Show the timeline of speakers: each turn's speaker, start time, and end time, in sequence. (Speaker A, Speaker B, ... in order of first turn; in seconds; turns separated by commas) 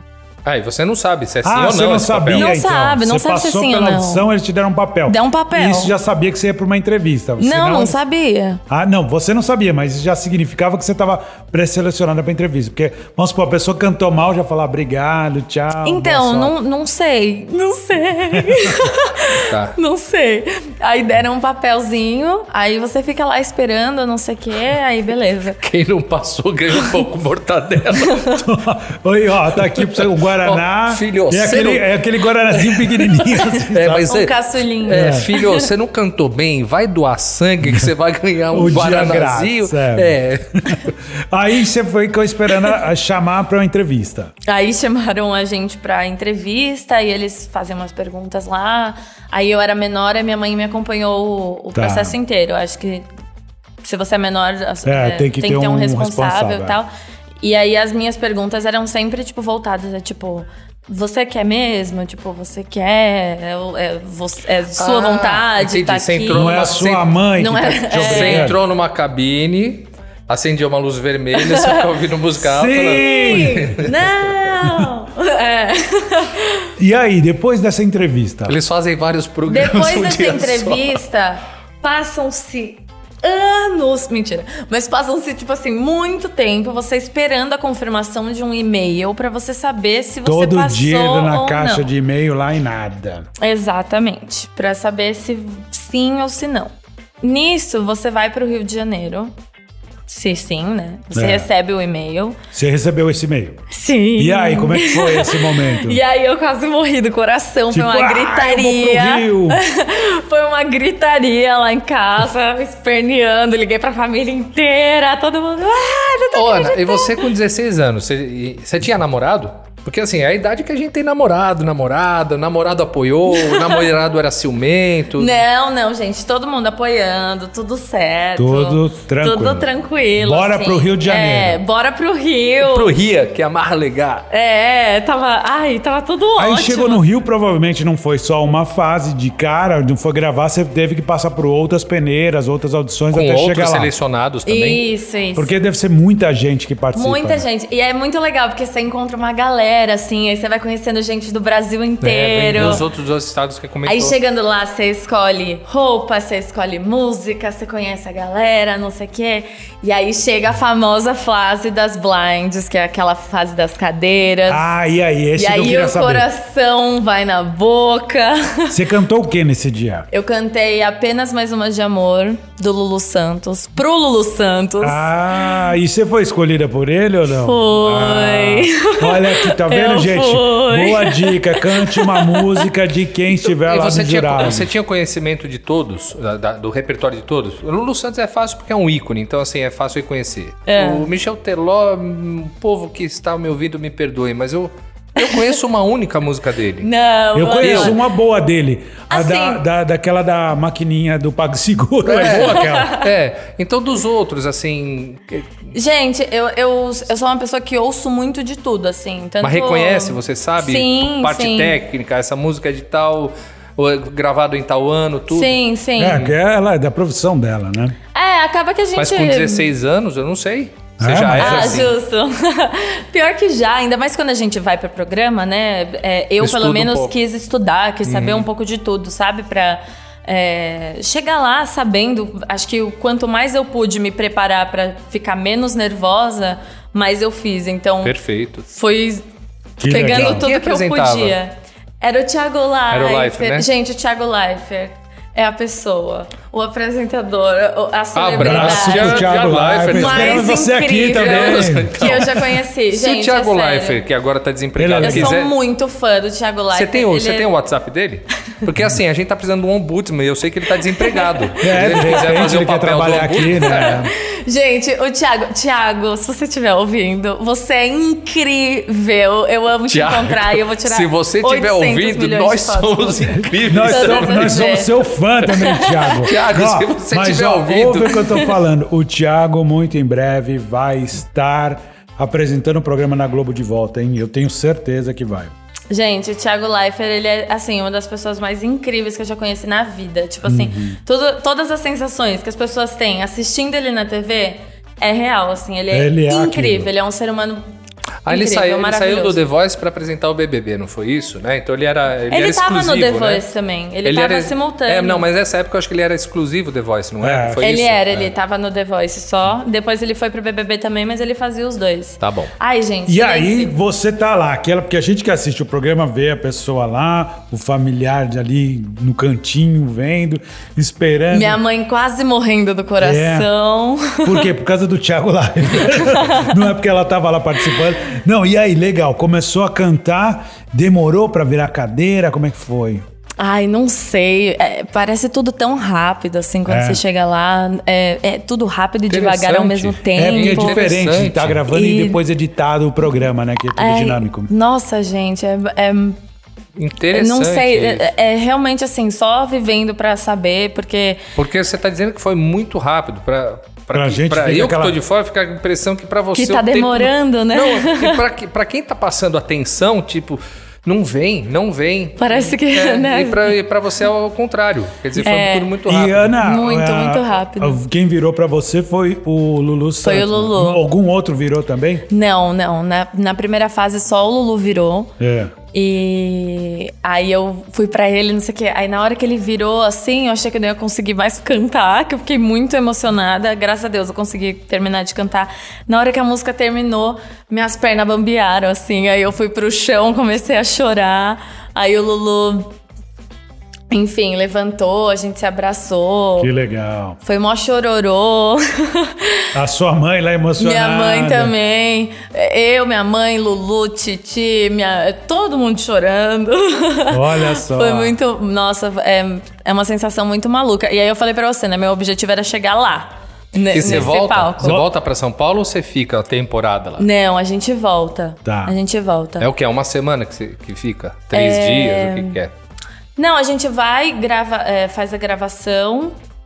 Speaker A: 0.4-2.5, Speaker B: 1.4-8.0, Speaker C: 2.3-4.2, Speaker C: 5.1-5.9, Speaker C: 7.4-8.6, Speaker B: 8.7-16.6, Speaker C: 15.8-25.6, Speaker B: 18.3-18.7, Speaker A: 19.4-19.8, Speaker A: 25.6-28.3, Speaker C: 28.0-28.4, Speaker B: 28.4-34.1, Speaker A: 29.8-31.9, Speaker A: 32.5-40.9, Speaker C: 34.1-35.7, Speaker B: 34.9-35.3, Speaker B: 38.5-44.3, Speaker C: 44.5-53.1, Speaker B: 51.8-52.1, Speaker C: 53.8-56.9, Speaker B: 54.9-56.8, Speaker C: 57.4-66.8, Speaker A: 64.8-67.1, Speaker B: 66.3-68.6, Speaker C: 67.4-68.5, Speaker A: 67.9-74.1, Speaker C: 71.4-71.8, Speaker B: 72.4-73.8, Speaker C: 72.9-76.7, Speaker B: 76.8-78.6, Speaker A: 78.5-81.0, Speaker C: 79.5-91.9, Speaker B: 90.2-93.3, Speaker C: 93.4-99.3, Speaker C: 100.1-102.4, Speaker B: 101.1-101.5, Speaker B: 102.5-103.6, Speaker C: 103.7-117.2, Speaker B: 104.2-106.0, Speaker B: 107.7-109.6, Speaker A: 116.3-125.4, Speaker C: 123.3-123.8, Speaker C: 125.2-132.9, Speaker B: 128.4-131.6, Speaker A: 132.6-134.3, Speaker C: 134.3-137.0, Speaker B: 136.4-143.9, Speaker A: 143.1-144.8, Speaker C: 144.5-145.5, Speaker B: 145.4-147.4, Speaker C: 146.9-152.8, Speaker A: 152.0-154.2, Speaker C: 153.9-164.7, Speaker B: 164.5-166.3, Speaker C: 165.4-168.8, Speaker B: 168.7-170.1, Speaker C: 170.1-175.1, Speaker B: 174.8-184.7, Speaker C: 177.4-182.7, Speaker A: 183.6-196.9, Speaker C: 190.7-191.1, Speaker C: 195.2-195.5, Speaker C: 196.8-198.0, Speaker B: 197.3-203.0, Speaker A: 197.6-197.9, Speaker C: 199.1-199.6, Speaker A: 202.1-205.5, Speaker C: 202.3-203.1, Speaker C: 205.7-211.8, Speaker A: 209.4-215.6, Speaker C: 215.3-216.3, Speaker B: 216.0-218.0, Speaker C: 218.1-219.7, Speaker A: 219.0-221.9, Speaker B: 221.0-221.9, Speaker C: 221.4-238.1, Speaker A: 226.4-227.1, Speaker A: 228.1-228.5, Speaker A: 238.0-238.7, Speaker C: 238.7-239.2, Speaker B: 239.8-240.5, Speaker C: 239.8-249.3, Speaker A: 240.0-241.4, Speaker A: 242.9-243.7, Speaker A: 248.1-255.6, Speaker B: 248.4-252.3, Speaker C: 249.9-254.0, Speaker B: 254.8-255.4, Speaker C: 255.0-257.5, Speaker A: 256.7-264.0, Speaker C: 261.0-262.5, Speaker B: 261.6-264.1, Speaker C: 263.6-276.3, Speaker A: 269.9-274.7, Speaker B: 273.6-285.5, Speaker A: 276.2-278.5, Speaker C: 285.9-297.6, Speaker B: 290.4-291.0, Speaker B: 295.9-296.9, Speaker A: 298.2-303.4, Speaker C: 298.3-299.4, Speaker C: 302.3-305.3, Speaker A: 304.0-308.3, Speaker B: 307.2-307.7, Speaker C: 307.6-313.7, Speaker A: 312.2-312.5, Speaker B: 313.1-321.6, Speaker C: 321.3-324.5, Speaker B: 323.0-323.5, Speaker B: 324.2-333.1, Speaker C: 325.9-326.6, Speaker C: 333.4-340.9, Speaker B: 336.7-337.0, Speaker A: 339.1-341.6, Speaker B: 340.1-344.5, Speaker C: 341.7-342.2, Speaker C: 343.7-346.2, Speaker A: 346.8-348.1, Speaker C: 347.1-351.2, Speaker A: 351.4-366.4, Speaker B: 353.9-355.0, Speaker C: 356.4-358.2, Speaker C: 362.2-363.6, Speaker C: 365.2-365.7, Speaker B: 365.9-372.1, Speaker C: 366.4-367.8, Speaker C: 370.0-370.8, Speaker C: 372.1-375.1, Speaker B: 375.2-375.5, Speaker C: 375.7-392.7, Speaker C: 393.9-396.5, Speaker B: 396.4-397.2, Speaker C: 397.2-399.5, Speaker B: 399.5-401.5, Speaker C: 400.6-414.8, Speaker B: 407.1-408.2, Speaker A: 413.7-417.1, Speaker C: 417.0-419.5, Speaker B: 418.4-418.8, Speaker A: 419.4-422.5, Speaker C: 421.3-422.4, Speaker C: 423.1-426.1